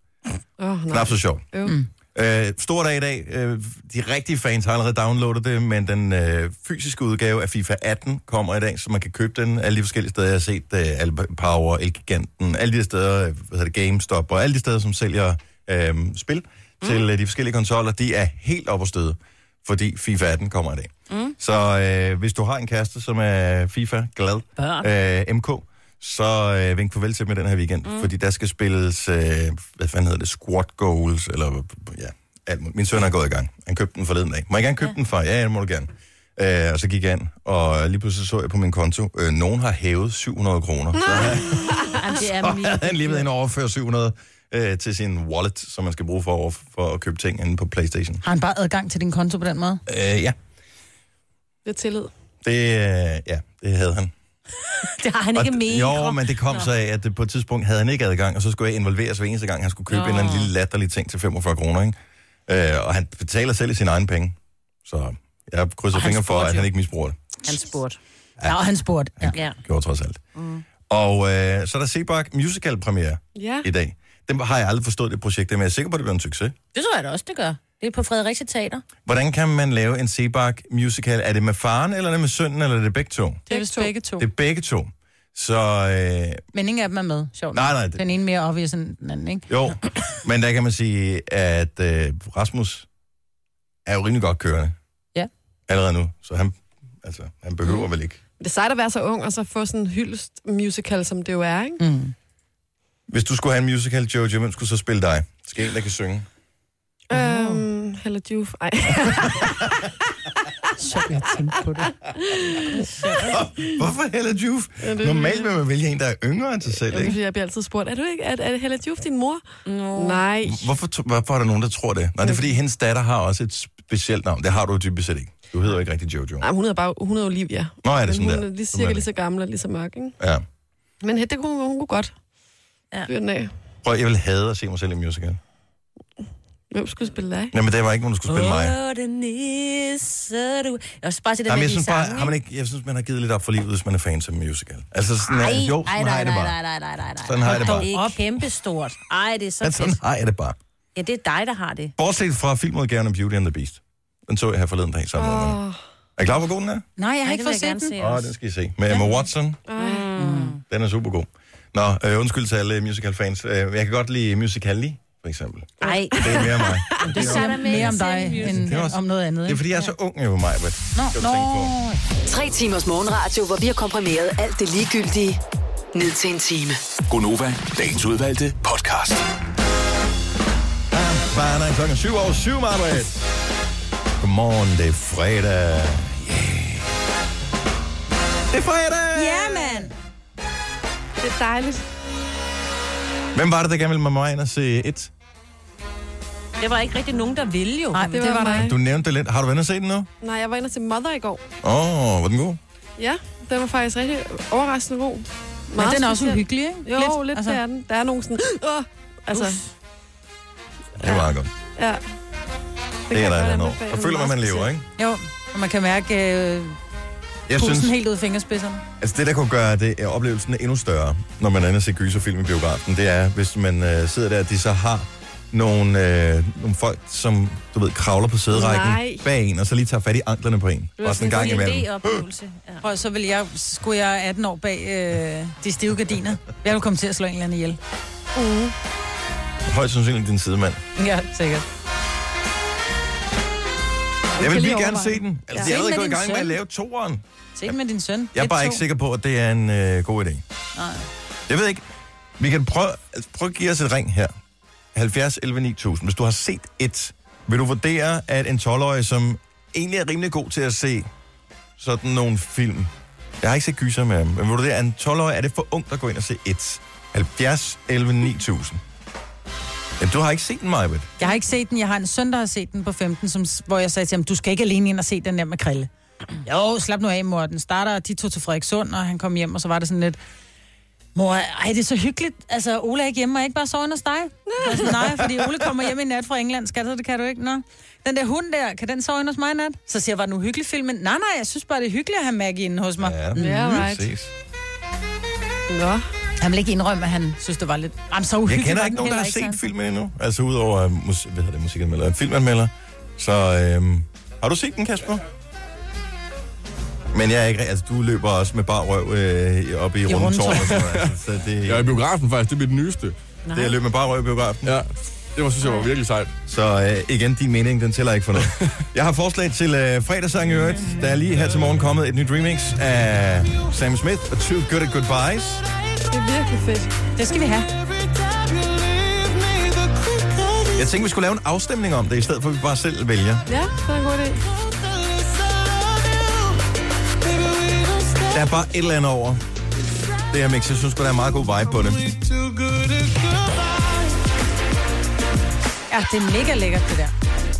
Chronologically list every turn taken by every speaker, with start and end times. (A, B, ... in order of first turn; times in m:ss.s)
0:00.6-0:01.7 A
0:00.9-0:01.4 B
0:02.1-0:48.2 B
0:21.1-0:21.4 C
0:24.6-0:24.9 C
0:27.8-0:28.1 C
0:41.0-0:41.9 A
0:41.8-0:43.2 C
0:48.2-0:49.8 D
0:49.9-0:50.4 B
0:51.6-0:52.1 A
0:52.4-0:54.1 B
0:54.8-0:56.7 C
0:55.3-1:02.0 B
0:59.9-1:00.5 C
1:02.5-1:07.2 B
1:05.9-1:06.7 C
1:07.4-1:08.0 C
1:08.4-1:09.4 D
1:09.2-1:10.2 B
1:10.4-1:10.6 C
1:10.9-1:16.5 B
1:13.4-1:13.7 A
1:16.7-1:18.8 C
1:19.0-1:23.4 B
1:23.5-1:23.9 A
1:23.5-1:24.3 D
1:24.2-1:26.4 B
1:26.5-1:29.4 D
1:27.5-1:28.0 B
1:29.5-1:32.8 B
1:33.8-1:34.7 B
1:35.7-1:38.2 B
1:38.4-1:41.8 A
1:41.8-1:42.1 D
1:43.1-1:46.2 B
1:47.1-1:49.8 A
1:47.1-1:47.6 D
1:50.8-1:51.9 D
1:51.9-1:52.8 A
1:53.2-1:57.2 B
1:54.8-1:55.5 A
1:56.8-1:59.4 A
1:59.7-2:00.2 C
2:00.0-2:00.7 A
2:00.4-2:06.4 B
2:02.2-2:02.5 A
2:06.4-2:10.2 A
2:07.8-2:09.1 B
2:10.2-2:10.4 B
2:11.0-2:12.1 A
2:13.1-2:13.5 A
2:13.8-2:15.4 B
2:16.7-2:17.5 A
2:17.5-2:18.8 B
2:18.3-2:22.3 C
2:21.5-2:26.6 B
2:25.3-2:30.0 C
2:27.2-2:27.9 B
2:27.4-2:28.2 D
2:29.6-2:30.6 B
2:30.9-2:31.9 C
2:32.0-2:35.6 B
2:35.2-2:35.8 A
2:36.2-2:36.8 B
2:37.0-2:37.9 D
2:37.2-2:38.3 C
2:38.0-2:39.6 B
2:38.9-2:39.2 C
2:39.7-2:40.1 A
2:39.8-2:40.6 C
2:40.2-2:40.5 D
2:40.7-2:51.7 B
2:45.8-2:48.8 C
2:46.2-2:46.7 A
2:47.0-2:49.7 D
2:50.9-2:52.0 D
2:52.3-2:55.4 E
2:55.9-2:56.8 E
2:57.1-2:59.2 F
3:00.9-3:03.3 B
3:04.2-3:06.9 B
3:08.5-3:09.9 B
3:09.1-3:09.9 D
3:11.2-3:11.8 A
3:13.3-3:15.1 B
3:16.6-3:18.2 C
3:17.9-3:18.7 D
3:18.1-3:18.8 A
3:18.5-3:20.1 B
3:20.2-3:21.4 A
3:21.6-3:22.6 B
3:23.0-3:29.6 A
3:25.8-3:27.6 D
3:29.3-3:29.7 C
3:31.0-3:31.5 B
3:31.8-3:32.0 A
3:33.1-3:34.7 A
3:33.1-3:34.8 B
3:35.0-3:36.8 D
3:37.5-3:38.0 B
3:37.6-3:38.8 D
3:39.0-3:52.2 B
3:48.5-3:49.2 A
3:51.0-3:52.8 C
3:52.8-3:57.8 D
3:58.3-3:58.7 A
3:59.7-4:00.8 B
4:01.0-4:01.6 D
4:04.4-4:05.7 A
4:04.4-4:07.7 B
4:05.5-4:06.6 D
4:07.6-4:08.8 D
4:08.3-4:10.4 B
4:10.8-4:11.0 D
4:11.5-4:11.8 B
4:12.4-4:14.3 B
4:14.9-4:21.1 B
4:21.8-4:28.8 B
4:30.0-4:31.1 B
4:31.2-4:35.9 D
4:36.4-4:40.2 D
4:41.1-4:53.8 D
4:53.0-4:54.3 B
4:53.4-4:54.1 A
4:55.7-4:56.0 A
4:56.4-4:59.6 D
4:58.4-5:05.2 B
5:07.1-5:12.0 B
5:10.0-5:10.8 D
5:10.7-5:11.1 G
5:11.6-5:13.1 G
5:13.4-5:13.8 C
5:13.5-5:14.8 B
5:14.6-5:16.3 G
5:16.5-5:25.6 B
5:26.1-5:26.9 A
5:27.2-5:27.7 D
5:29.1-5:30.7 A
5:30.7-5:33.4 B
5:33.5-5:34.4 A
5:38.3-5:39.4 B
5:40.3-5:42.2 B
5:45.9-5:47.1 D